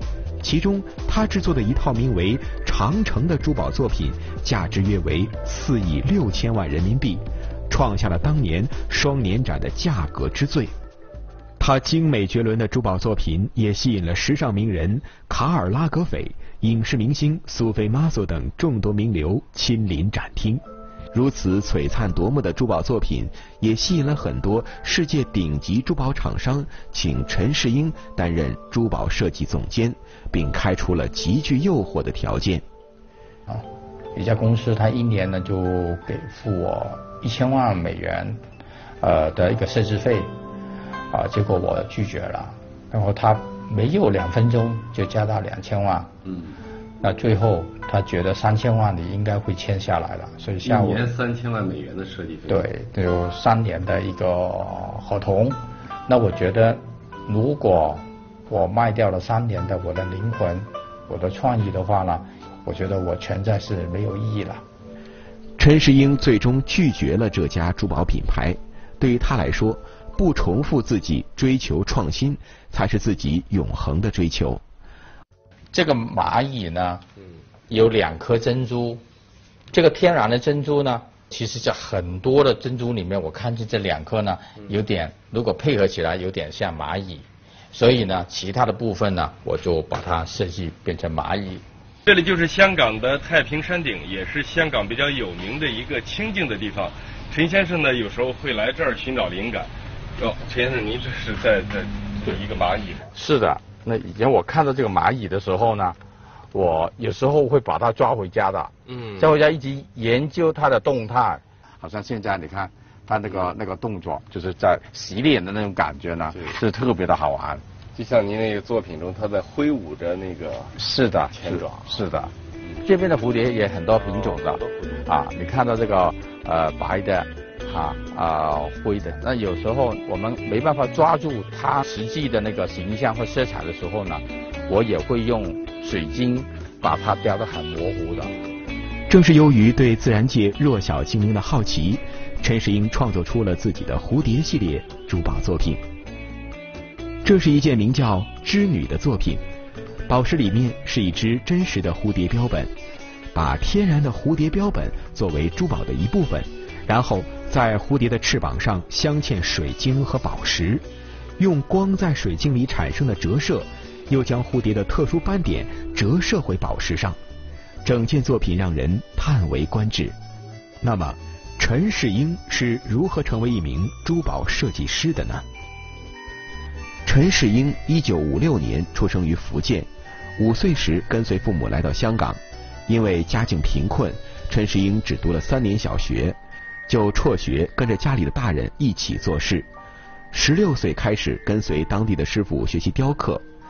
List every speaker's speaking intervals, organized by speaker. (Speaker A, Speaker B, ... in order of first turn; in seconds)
Speaker A: 0.4-10.7, 11.6-32.6, 65.6-74.6, 139.1-145.8, 147.2-149.4, 150.1-152.7, 153.3-160.9, 161.4-167.2, 167.8-170.2, 170.8-175.4, 177.1-189.7, 190.3-193.4
Speaker B: 33.5-38.4, 39.0-40.3, 41.1-46.1, 47.0-51.1, 52.5-64.6, 75.7-77.0, 77.7-79.0, 79.7-91.6, 103.1-106.0, 106.5-117.6, 120.8-138.3
Speaker C: 50.6-52.7, 92.1-103.1, 108.9-109.3, 117.9-120.7, 121.3-121.9, 124.0-124.9